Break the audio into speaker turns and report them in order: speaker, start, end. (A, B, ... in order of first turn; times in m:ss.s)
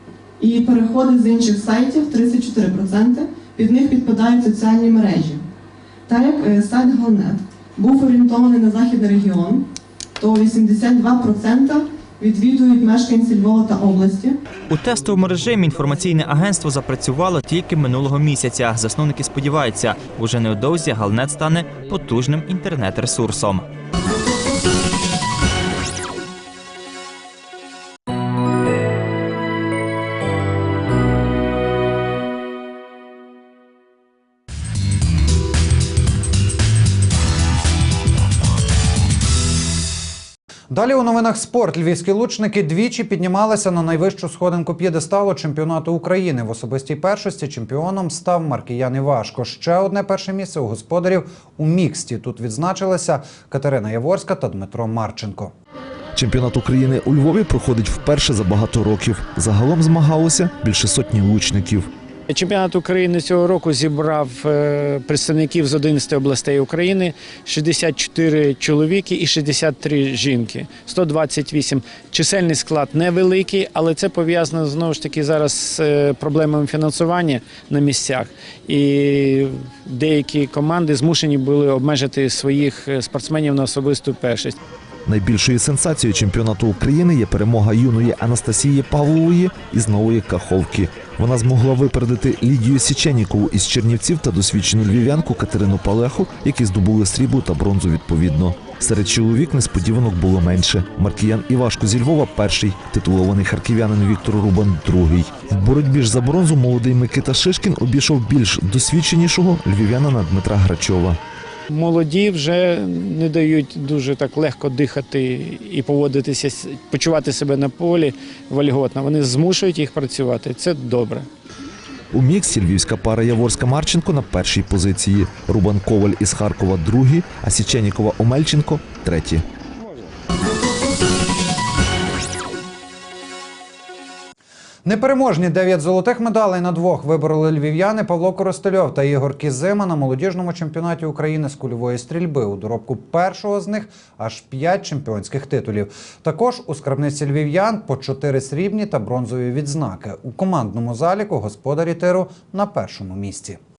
0:00.4-0:05.4 A
0:06.1-0:14.4 A
0:14.7-0:23.7 B
0:40.7-0:55.5 C
0:56.2-1:01.9 D
1:02.3-1:24.6 E
1:25.1-1:51.2 D
1:51.7-2:01.3 E
2:02.1-2:09.4 D
2:14.8-2:33.6 C